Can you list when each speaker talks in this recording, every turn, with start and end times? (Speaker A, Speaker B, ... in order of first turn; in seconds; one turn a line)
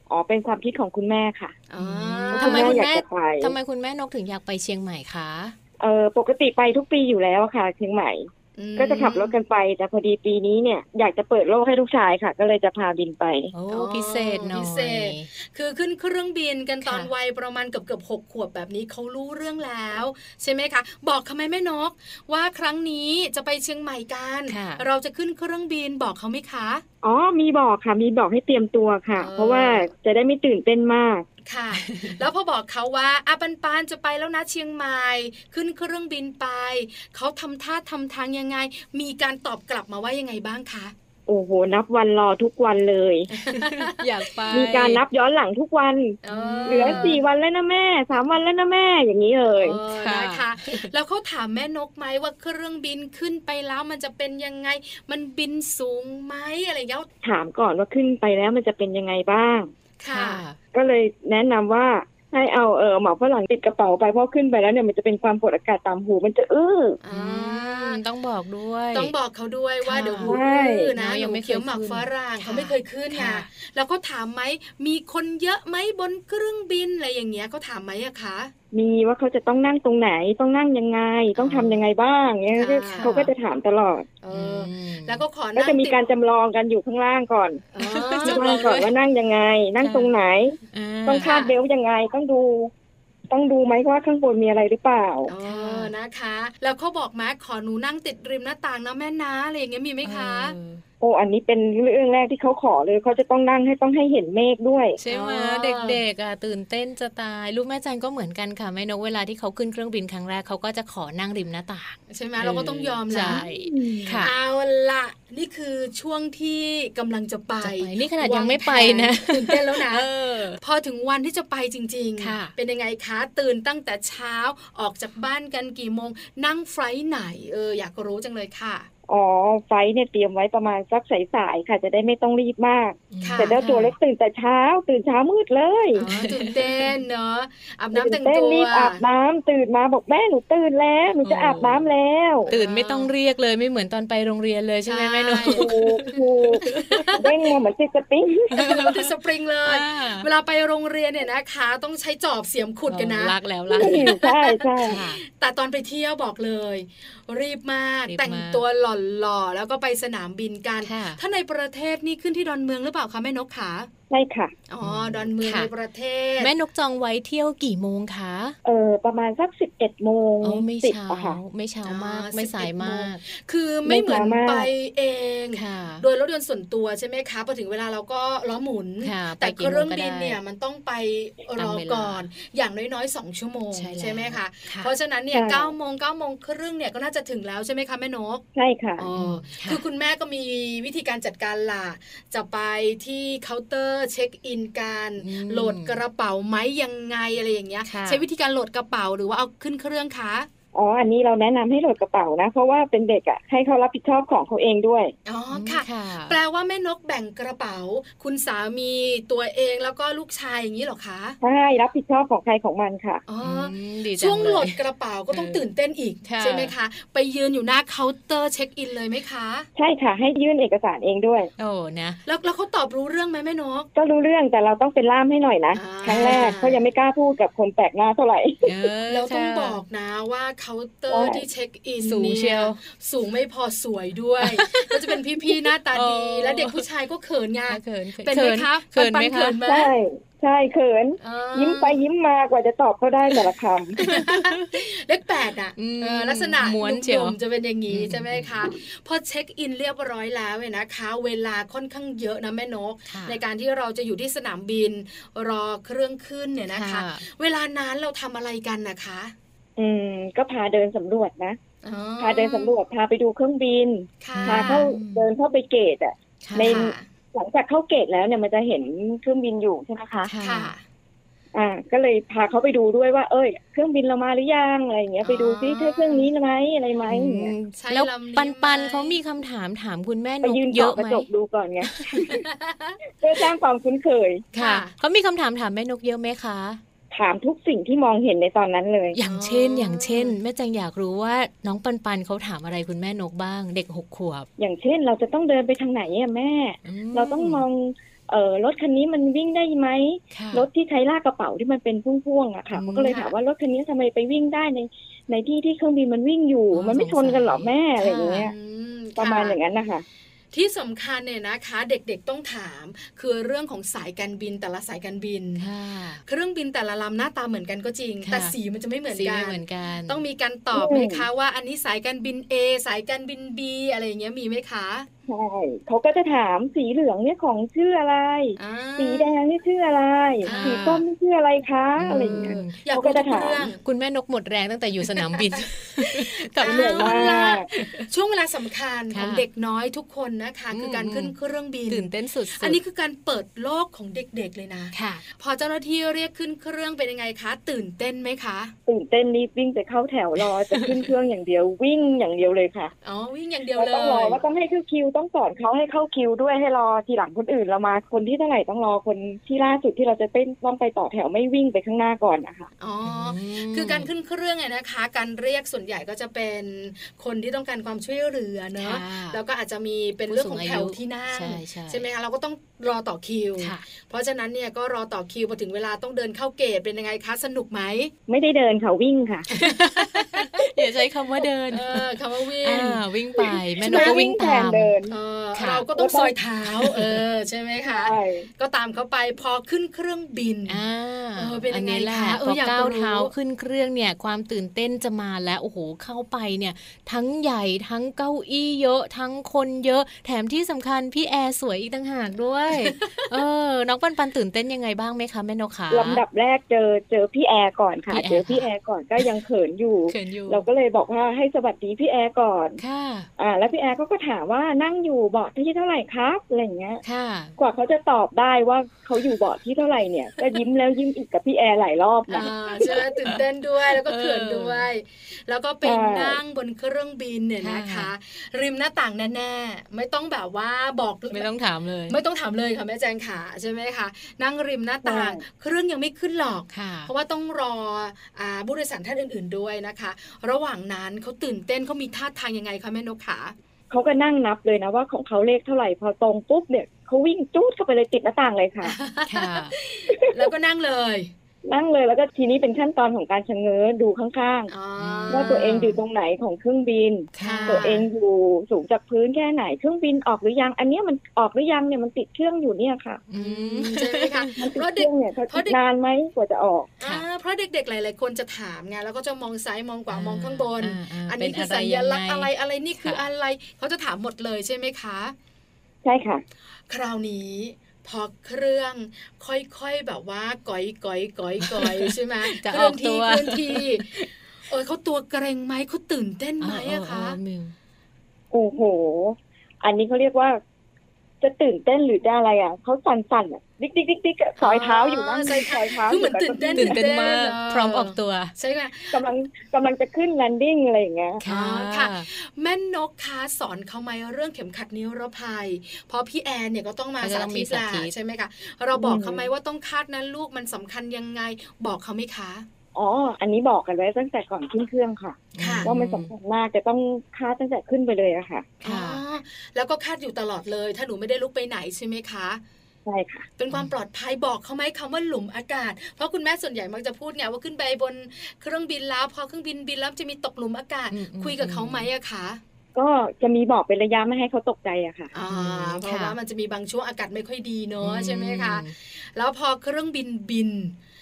Speaker A: 0.1-1.5
Speaker B: 1.7-2.8
Speaker C: 1.8-5.5
Speaker A: 2.3-3.5
Speaker A: 5.8-13.5
Speaker B: 8.6-9.4
Speaker C: 13.5-15.3
Speaker B: 13.7-26.8
Speaker C: 16.8-17.1
Speaker C: 24.5-24.8
Speaker A: 27.0-31.2
Speaker B: 29.1-29.9
Speaker B: 31.4-40.9
Speaker C: 31.7-32.2
Speaker A: 41.3-43.3
Speaker B: 43.3-43.9
Speaker C: 43.4-45.0
Speaker A: 44.5-49.8
Speaker B: 46.2-47.2
Speaker C: 46.3-47.2
Speaker B: 49.6-57.1
Speaker C: 49.9-50.9
Speaker A: 57.2-59.7
Speaker B: 60.0-60.4
Speaker C: 60.1-60.6
Speaker A: 60.7-67.0
Speaker B: 67.0-68.0
Speaker C: 67.1-69.1
Speaker B: 68.9-78.5
Speaker C: 69.8-70.4
Speaker A: 70.2-70.9
Speaker C: 71.0-73.5
Speaker A: 78.7-84.1
Speaker B: 81.4-81.8
Speaker B: 82.5-83.3
Speaker C: 82.7-83.3
Speaker B: 84.2-86.1
Speaker C: 84.3-85.2
Speaker A: 85.5-87.6
Speaker B: 87.7-88.5
Speaker C: 87.8-88.9
Speaker A: 88.2-92.7
Speaker C: 89.8-90.1
Speaker C: 90.7-91.3
Speaker B: 91.2-91.5
Speaker A: 93.3-95.3
Speaker B: 95.2-100.5
Speaker C: 95.4-95.9
Speaker C: 100.0-100.8
Speaker A: 101.0-105.0
Speaker C: 105.0-114.3
Speaker B: 105.1-106.0
Speaker B: 112.1-113.4
Speaker A: 113.2-114.2
Speaker B: 114.2-128.9
Speaker C: 117.6-120.6
Speaker C: 122.2-122.5
Speaker A: 129.1-136.0
Speaker C: 133.1-133.9
Speaker B: 133.2-133.6
Speaker B: 135.9-139.0
Speaker C: 136.0-136.9
Speaker A: 137.9-142.5
Speaker C: 141.2-141.9
Speaker B: 142.4-143.1
Speaker C: 142.5-147.2
Speaker B: 144.8-145.7
Speaker A: 145.5-146.6
Speaker B: 146.7-147.2
Speaker A: 147.2-148.6
Speaker C: 148.5-149.1
Speaker B: 148.6-163.9
Speaker C: 149.7-150.3
Speaker C: 152.9-154.2
Speaker A: 153.8-155.0
Speaker C: 154.8-155.2
Speaker C: 158.1-158.6
Speaker C: 160.8-161.2
Speaker A: 164.1-164.5
Speaker B: 164.7-166.5
Speaker C: 164.8-165.7
Speaker C: 166.4-168.6
Speaker A: 168.6-171.4
Speaker C: 170.4-173.2
Speaker B: 171.8-188.4
Speaker A: 173.8-174.7
Speaker C: 175.5-176.0
Speaker C: 179.0-180.4
Speaker C: 181.6-182.3
Speaker C: 183.7-184.9
Speaker A: 185.3-185.7
Speaker A: 188.5-189.1
Speaker B: 189.0-200.5
Speaker C: 189.2-189.8
Speaker C: 195.2-196.0
Speaker C: 197.8-198.2
Speaker A: 200.7-205.1
Speaker B: 205.2-211.4
Speaker C: 205.5-206.4
Speaker A: 211.4-213.2
Speaker B: 213.3-219.7
Speaker C: 213.4-214.8
Speaker C: 215.3-215.6
Speaker C: 216.2-216.7
Speaker A: 219.8-221.5
Speaker C: 221.6-222.2
Speaker B: 222.2-223.9
Speaker A: 223.9-228.7
Speaker B: 225.7-226.8
Speaker C: 226.0-226.5
Speaker C: 228.6-229.8
Speaker B: 229.1-239.9
Speaker A: 231.1-231.4
Speaker C: 232.0-232.8
Speaker C: 234.4-236.8
Speaker C: 237.7-239.6
Speaker A: 239.7-244.0
Speaker B: 241.2-242.0
Speaker C: 244.0-244.8
Speaker B: 244.0-259.3
Speaker C: 245.8-247.4
Speaker C: 247.9-248.7
Speaker C: 253.1-253.4
Speaker C: 256.7-257.2
Speaker A: 259.8-261.6
Speaker B: 261.8-262.7
Speaker A: 262.2-270.3
Speaker B: 264.2-264.9
Speaker C: 264.3-265.3
Speaker C: 266.4-266.9
Speaker B: 266.6-267.0
Speaker C: 270.2-270.7
Speaker B: 270.4-270.8
Speaker A: 271.5-277.5
Speaker B: 275.2-276.3
Speaker C: 277.1-281.3
Speaker B: 277.8-279.2
Speaker A: 280.4-282.4
Speaker C: 281.9-282.3
Speaker B: 282.3-283.0
Speaker A: 283.2-284.4
Speaker B: 284.5-284.9
Speaker C: 284.5-286.8
Speaker A: 287.1-289.2
Speaker C: 289.1-294.5
Speaker B: 289.2-290.3
Speaker A: 294.6-308.5
Speaker C: 296.8-297.6
Speaker C: 300.3-300.7
Speaker C: 302.7-303.2
Speaker B: 303.1-303.3
Speaker C: 306.7-308.5
Speaker B: 308.4-309.6
Speaker A: 309.2-310.0
Speaker B: 310.5-315.7
Speaker C: 315.6-316.2
Speaker B: 316.2-325.1
Speaker C: 318.2-318.5
Speaker C: 319.1-320.2
Speaker A: 320.7-321.3
Speaker A: 325.3-333.7
Speaker B: 328.6-329.4
Speaker C: 330.4-331.0
Speaker B: 330.4-331.0
Speaker C: 332.0-332.8
Speaker B: 332.4-333.8
Speaker C: 333.8-338.1
Speaker B: 335.1-348.7
Speaker A: 336.6-337.7
Speaker C: 339.1-339.4
Speaker C: 340.7-341.3
Speaker C: 341.9-342.8
Speaker C: 344.9-345.2
Speaker A: 348.9-352.9
Speaker C: 350.7-351.0
Speaker B: 353.0-354.4
Speaker A: 353.7-362.7
Speaker B: 362.8-378.1
Speaker C: 363.0-364.1
Speaker C: 368.8-369.4
Speaker C: 370.3-372.0
Speaker A: 378.3-379.5
Speaker C: 379.5-384.9
Speaker B: 379.6-380.5
Speaker B: 381.7-383.0
Speaker B: 383.8-384.2
Speaker A: 383.8-385.2
Speaker B: 385.1-390.8
Speaker C: 385.5-385.9
Speaker A: 386.0-386.3
Speaker C: 386.6-387.2
Speaker A: 387.9-388.5
Speaker C: 390.7-406.2
Speaker B: 391.4-393.3
Speaker B: 402.9-403.2
Speaker A: 405.9-412.8
Speaker C: 408.1-408.7
Speaker C: 410.1-410.7
Speaker C: 412.8-413.3
Speaker A: 413.4-417.0
Speaker C: 417.0-417.6
Speaker A: 417.6-422.6
Speaker C: 422.3-424.8
Speaker B: 422.3-431.5
Speaker A: 425.8-426.4
Speaker C: 427.6-428.1
Speaker C: 431.3-432.1
Speaker B: 432.1-443.5
Speaker A: 435.0-435.4
Speaker C: 436.7-437.1
Speaker A: 443.9-448.9
Speaker B: 448.8-451.3
Speaker C: 449.2-449.7
Speaker A: 450.1-450.5
Speaker A: 451.6-454.7
Speaker B: 454.7-455.8
Speaker C: 455.0-456.0
Speaker A: 455.3-463.2
Speaker C: 457.3-457.9
Speaker B: 457.4-458.1
Speaker C: 463.3-464.6
Speaker B: 463.3-465.8
Speaker A: 464.6-466.9
Speaker B: 467.0-475.3
Speaker C: 470.1-472.5
Speaker A: 476.0-476.4
Speaker B: 476.9-484.1
Speaker C: 481.6-484.3
Speaker B: 484.7-487.4
Speaker C: 486.6-487.7
Speaker A: 488.5-490.6
Speaker A: 491.4-497.0
Speaker B: 494.6-499.2
Speaker C: 496.8-498.5
Speaker A: 499.1-501.4
Speaker C: 501.4-502.2
Speaker B: 501.4-512.6
Speaker C: 507.2-508.1
Speaker A: 508.9-509.5
Speaker A: 512.9-518.7
Speaker C: 515.5-516.3
Speaker B: 515.6-515.9
Speaker B: 518.8-522.6
Speaker C: 518.8-519.2
Speaker A: 523.1-523.5
Speaker B: 523.6-532.6
Speaker C: 531.1-532.1
Speaker A: 532.9-535.3
Speaker B: 535.3-541.0
Speaker C: 535.5-536.4
Speaker C: 538.0-538.9